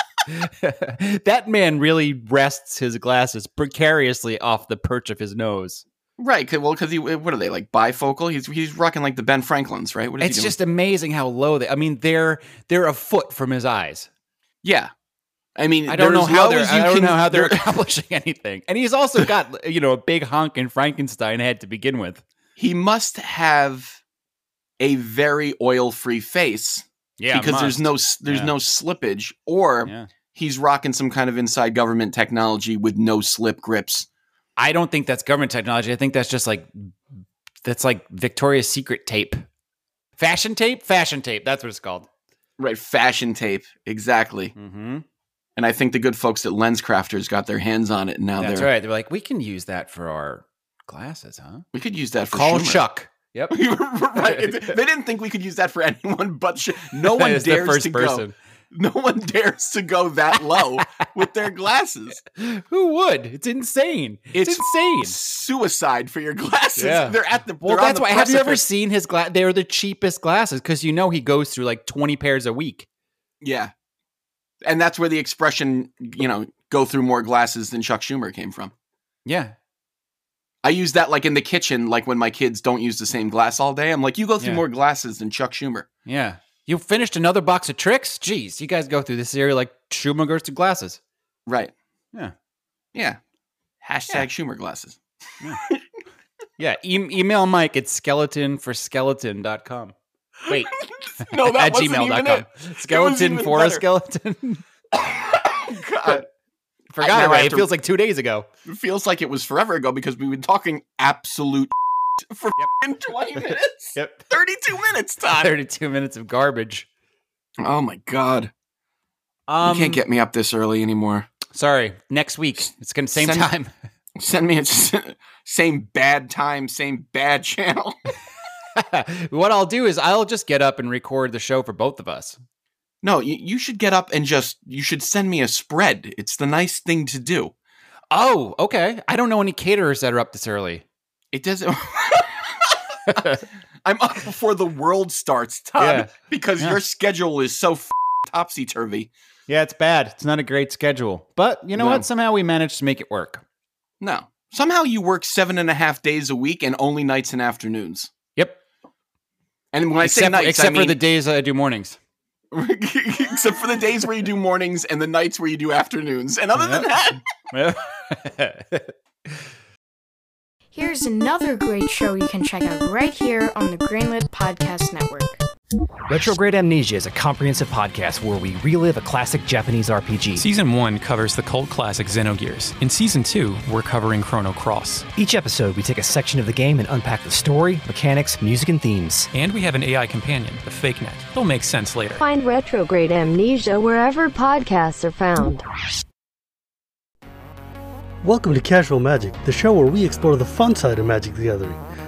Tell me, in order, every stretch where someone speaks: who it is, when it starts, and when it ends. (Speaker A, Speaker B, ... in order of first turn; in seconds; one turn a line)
Speaker A: 0.3-5.8
Speaker B: 6.2-10.6
Speaker A: 10.2-14.1
Speaker B: 14.6-14.9
Speaker B: 15.6-17.6
Speaker A: 15.9-22.2
Speaker B: 22.6-24.0
Speaker B: 24.8-34.1
Speaker A: 27.2-28.5
Speaker A: 29.9-30.1
Speaker A: 34.6-37.0
Speaker A: 37.6-39.5
Speaker A: 40.2-42.1
Speaker B: 42.6-44.5
Speaker A: 44.6-45.0
Speaker B: 45.6-48.7
Speaker A: 48.4-51.6
Speaker B: 51.7-52.8
Speaker A: 52.3-53.6
Speaker B: 53.5-62.2
Speaker A: 54.2-54.8
Speaker A: 57.0-58.4
Speaker A: 62.3-65.2
Speaker B: 64.3-68.6
Speaker A: 66.8-72.9
Speaker B: 73.4-73.7
Speaker B: 74.6-78.7
Speaker A: 79.3-79.5
Speaker B: 80.6-85.9
Speaker A: 86.1-91.0
Speaker B: 91.5-91.7
Speaker B: 92.9-93.2
Speaker B: 93.8-95.0
Speaker A: 96.6-100.0
Speaker A: 100.5-104.6
Speaker B: 100.5-103.8
Speaker B: 104.9-106.3
Speaker A: 106.9-108.5
Speaker B: 107.0-107.7
Speaker B: 108.7-115.5
Speaker A: 114.0-114.2
Speaker A: 115.3-116.9
Speaker B: 117.6-118.5
Speaker A: 119.5-120.0
Speaker B: 119.6-121.3
Speaker A: 121.5-123.7
Speaker B: 123.2-123.5
Speaker B: 124.2-128.0
Speaker A: 128.8-132.4
Speaker B: 133.0-137.5
Speaker A: 138.1-140.8
Speaker B: 141.3-149.1
Speaker A: 143.1-143.4
Speaker A: 145.8-146.8
Speaker A: 149.5-153.4
Speaker B: 151.8-152.1
Speaker B: 154.0-158.1
Speaker B: 159.7-161.0
Speaker A: 160.0-162.0
Speaker B: 162.5-167.2
Speaker A: 166.6-166.9
Speaker A: 167.5-168.9
Speaker C: 170.7-175.4
Speaker D: 176.1-180.4
Speaker E: 180.4-185.1
Speaker D: 185.2-189.3
Speaker E: 189.3-192.2
Speaker F: 192.2-195.7
Speaker G: 198.2-201.8